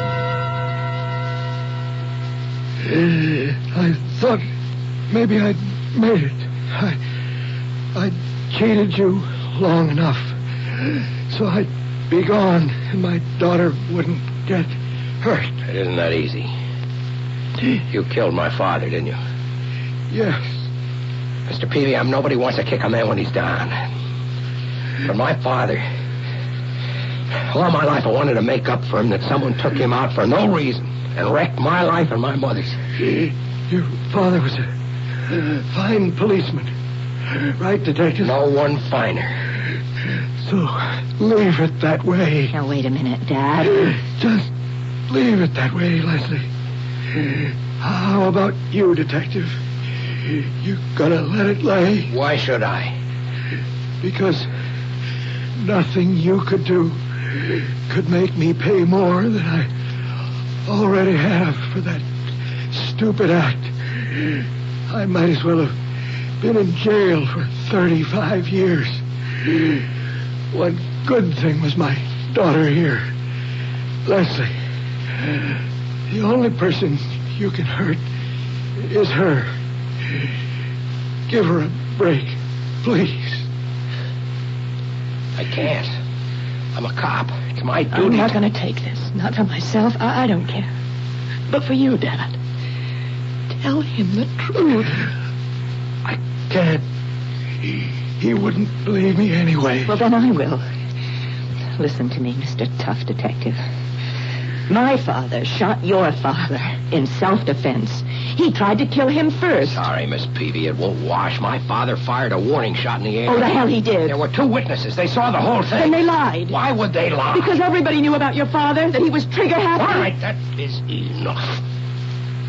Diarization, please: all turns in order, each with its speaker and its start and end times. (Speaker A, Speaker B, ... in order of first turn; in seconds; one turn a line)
Speaker A: 2.8-4.4
Speaker A: 5.1-7.0
Speaker A: 7.9-15.6
Speaker B: 15.6-16.5
Speaker B: 17.9-19.2
Speaker A: 20.1-20.7
Speaker B: 21.5-23.8
Speaker B: 25.0-25.8
Speaker B: 27.5-32.8
Speaker A: 33.1-34.6
Speaker A: 35.3-36.7
Speaker A: 37.4-38.4
Speaker B: 38.2-39.4
Speaker A: 40.4-42.5
Speaker C: 42.5-43.9
Speaker A: 44.1-44.5
Speaker A: 45.1-46.5
Speaker A: 47.2-49.6
Speaker A: 50.3-52.1
Speaker B: 52.1-52.9
Speaker A: 54.0-54.5
Speaker A: 55.5-59.7
Speaker A: 60.6-62.0
Speaker A: 62.7-65.8
Speaker A: 66.4-69.8
Speaker A: 70.5-73.1
Speaker A: 74.0-74.5
Speaker A: 76.1-78.0
Speaker A: 78.8-79.5
Speaker A: 81.3-83.5
Speaker B: 85.4-85.9
Speaker B: 86.7-88.4
Speaker C: 87.9-90.7
Speaker C: 91.5-92.4
Speaker C: 93.5-95.0
Speaker A: 96.0-96.8
Speaker A: 97.7-100.0
Speaker C: 99.9-100.6
Speaker C: 101.8-103.6
Speaker C: 104.7-109.8
Speaker B: 109.6-113.5
Speaker C: 113.3-114.2
Speaker B: 114.1-117.5
Speaker C: 115.7-116.6
Speaker C: 117.3-120.1
Speaker B: 119.8-121.6